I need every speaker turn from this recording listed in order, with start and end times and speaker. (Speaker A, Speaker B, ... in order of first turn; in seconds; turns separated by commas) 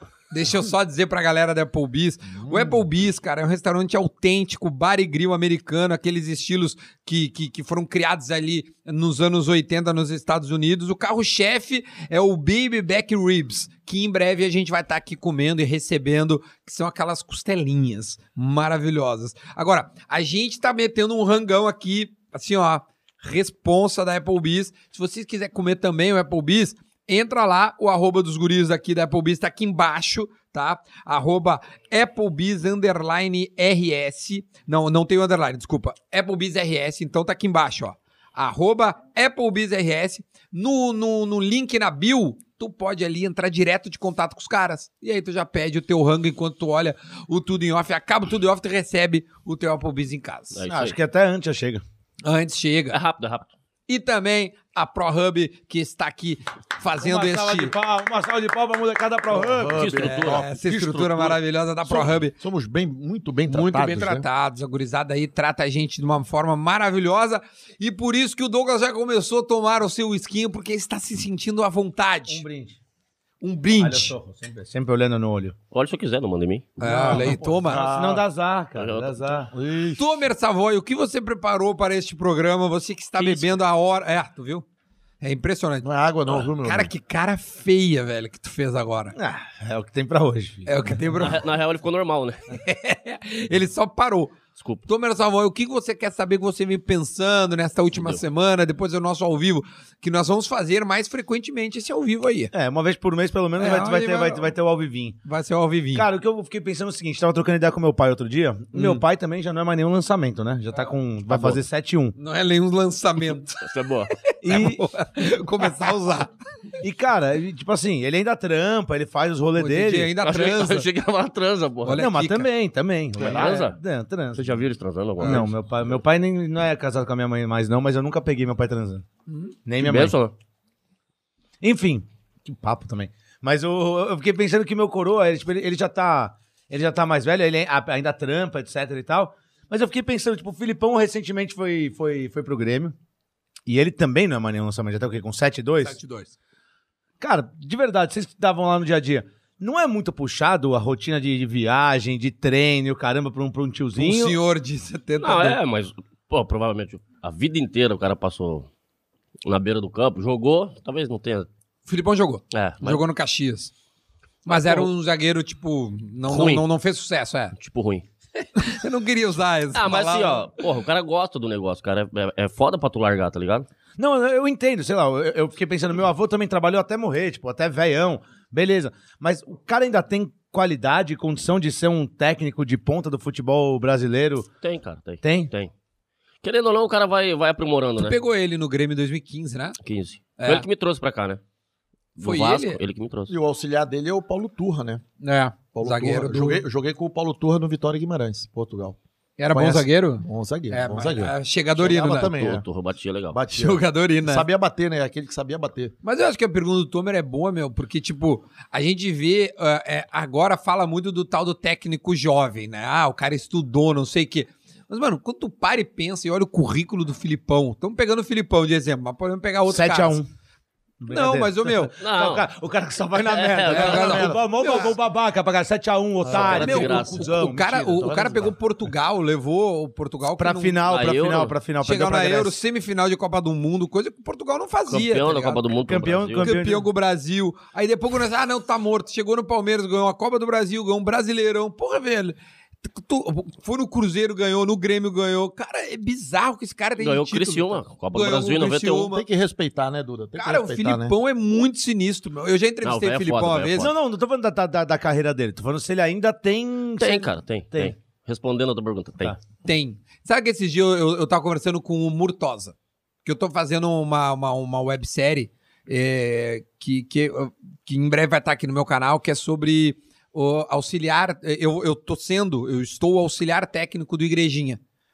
Speaker A: 0.3-50.6, Speaker B: 2.3-2.8, Speaker C: 50.5-51.0, Speaker D: 50.7-51.8, Speaker A: 52.2-53.0, Speaker C: 52.9-53.5, Speaker A: 53.9-57.7, Speaker D: 57.0-59.8, Speaker B: 59.3-64.2, Speaker C: 59.7-60.5, Speaker A: 60.0-62.3, Speaker A: 63.5-72.4, Speaker D: 72.3-72.8, Speaker A: 73.4-74.1, Speaker D: 73.8-75.5, Speaker C: 75.7-76.8, Speaker A: 76.8-77.9, Speaker B: 76.8-78.2, Speaker D: 77.0-79.5, Speaker C: 78.8-79.3, Speaker B: 79.5-80.1, Speaker A: 80.0-84.6, Speaker C: 83.2-83.6, Speaker A: 85.2-89.1, Speaker B: 85.8-86.9, Speaker D: 89.1-91.0, Speaker A: 90.7-91.4, Speaker C: 91.2-92.4, Speaker A: 92.5-102.5, Speaker C: 94.6-94.8, Speaker C: 97.9-98.2, Speaker D: 102.5-105.2, Speaker A: 103.6-104.5, Speaker A: 105.2-106.1, Speaker D: 105.9-112.1, Speaker C: 111.3-111.6, Speaker A: 112.2-113.6, Speaker C: 113.6-114.1, Speaker A: 114.3-116.3, Speaker D: 114.4-114.8, Speaker D: 116.8-120.2, Speaker A: 119.6-120.9, Speaker C: 120.2-122.0, Speaker A: 121.8-122.5, Speaker D: 121.9-124.6, Speaker B: 123.2-123.5, Speaker C: 123.2-123.8, Speaker C: 124.3-125.9, Speaker D: 125.2-129.1, Speaker A: 125.2-125.5, Speaker A: 129.3-129.6, Speaker D: 129.7-130.2, Speaker C: 129.8-130.3, Speaker D: 131.6-142.9, Speaker D: 143.7-146.0, Speaker A: 145.8-146.3, Speaker D: 147.2-154.3, Speaker A: 153.9-155.6, Speaker C: 155.2-158.7, Speaker C: 159.4-161.5, Speaker A: 161.9-163.7, Speaker C: 162.5-163.0, Speaker C: 164.4-164.9, Speaker A: 164.4-167.6, Speaker C: 166.3-166.6, Speaker C: 167.6-168.1, Speaker A: 168.6-170.6, Speaker C: 169.7-173.7, Speaker D: 174.0-184.5, Speaker C: 184.6-185.7, Speaker D: 185.2-185.5, Speaker C: 186.4-188.2, Speaker A: 187.9-189.8, Speaker C: 189.8-191.4, Speaker A: 190.4-190.7, Speaker C: 192.2-193.3, Speaker A: 192.2-192.8, Speaker B: 193.3-195.0, Speaker A: 195.2-196.6, Speaker B: 195.7-199.0, Speaker A: 199.4-202.3, Speaker B: 199.5-202.6, Speaker C: 202.3-203.4, Speaker B: 203.3-205.9, Speaker A: 203.5-204.4, Speaker A: 206.0-220.2, Speaker D: 219.7-220.3, Speaker D: 221.0-228.3, Speaker A: 221.1-221.9, Speaker C: 222.0-222.5, Speaker C: 223.2-224.4, Speaker A: 223.7-224.9, Speaker B: 223.7-224.9, Speaker C: 226.2-227.3, Speaker A: 226.3-230.9, Speaker B: 228.0-228.5, Speaker D: 230.2-232.6, Speaker C: 230.8-231.6, Speaker A: 231.8-235.6, Speaker C: 234.9-236.5, Speaker D: 235.8-236.9, Speaker A: 236.4-249.2, Speaker C: 247.0-249.1, Speaker B: 249.1-251.1, Speaker A: 250.4-253.9, Speaker C: 252.8-253.9, Speaker D: 253.8-257.9, Speaker C: 257.0-259.3, Speaker A: 259.6-262.7, Speaker A: 263.2-274.8